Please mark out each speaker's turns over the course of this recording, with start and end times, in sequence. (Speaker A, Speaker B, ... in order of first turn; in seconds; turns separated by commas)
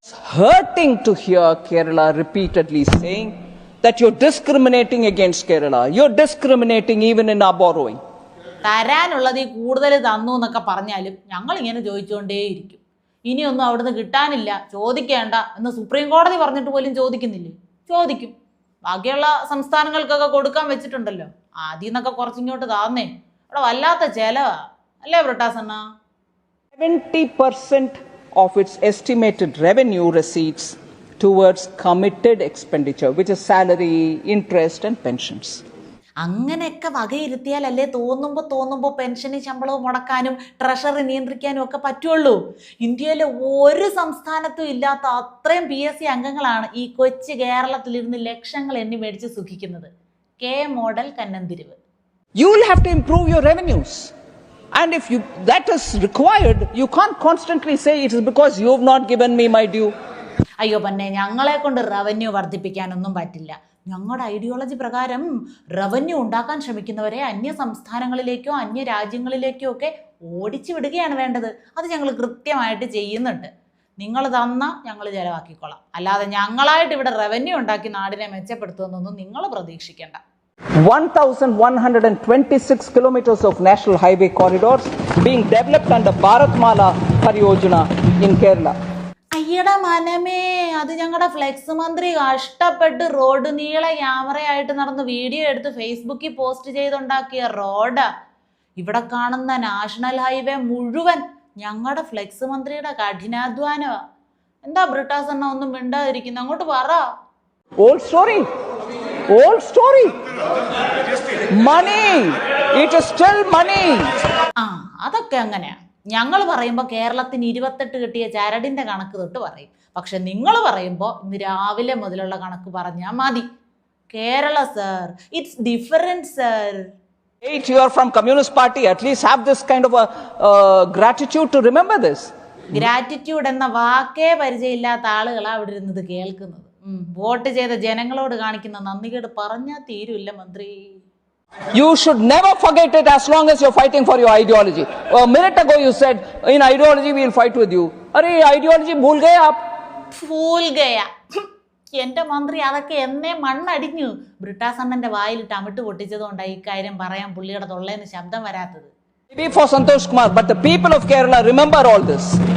Speaker A: 0.2-8.0, Speaker B: 8.6-18.3, Speaker B: 18.9-24.5, Speaker B: 25.0-25.8, Speaker A: 26.7-35.6, Speaker B: 36.2-49.9, Speaker B: 50.4-51.8, Speaker A: 52.4-54.1, Speaker A: 54.7-59.9, Speaker B: 60.6-80.2, Speaker A: 80.8-88.7, Speaker B: 89.3-98.0, Speaker B: 98.8-103.9, Speaker B: 104.6-107.0, Speaker A: 107.8-108.5, Speaker A: 109.3-110.1, Speaker A: 111.5-114.1, Speaker B: 114.6-123.4, Speaker B: 124.1-126.9, Speaker A: 127.4-132.3, Speaker B: 132.7-140.7, Speaker A: 141.7-149.6, Speaker B: 150.1-151.1, Speaker B: 151.9-158.9, Speaker A: 159.3-162.4